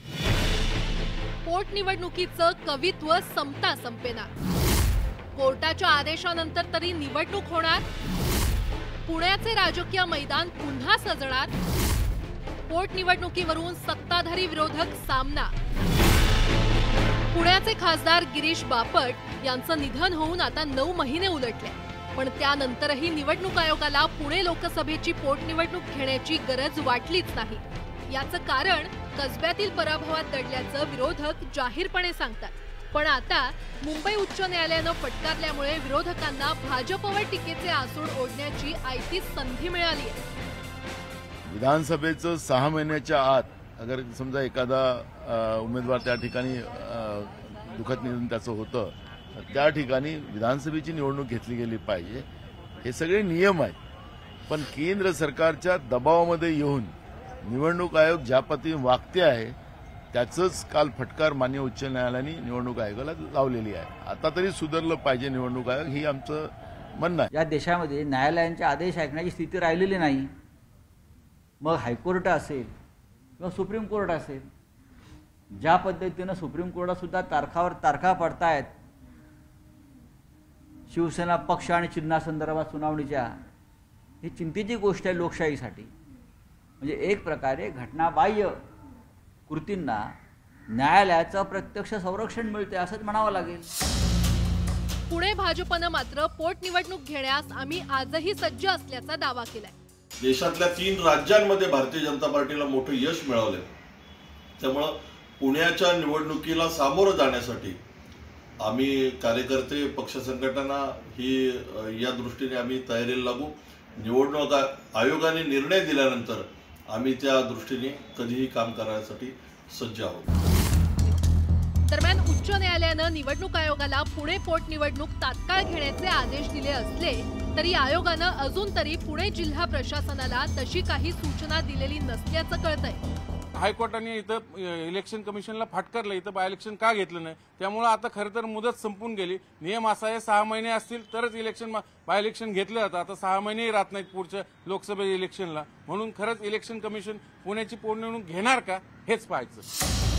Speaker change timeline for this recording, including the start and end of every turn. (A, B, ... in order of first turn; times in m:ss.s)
0:01.4-0:04.3 A
0:05.4-0:07.8 A
0:09.1-0:11.5 A
0:12.7-0:15.5 A
0:17.3-0:40.2 A
0:41.5-0:52.3 B
0:52.8-0:53.8 B
0:54.5-0:59.6 B
1:00.1-1:07.3 B
1:07.3-1:10.3 C
1:11.6-1:12.7 C
1:13.4-1:14.4 C
1:15.6-1:18.7 C
1:20.9-1:23.3 C
1:24.2-1:25.9 C
1:26.8-1:28.6 C
1:29.5-1:30.1 C
1:30.7-1:33.7 C
1:35.1-1:39.8 A
1:40.2-1:43.7 D
1:44.6-1:47.8 D
1:48.6-2:00.2 D
2:01.9-2:13.0 A
2:13.6-2:29.7 E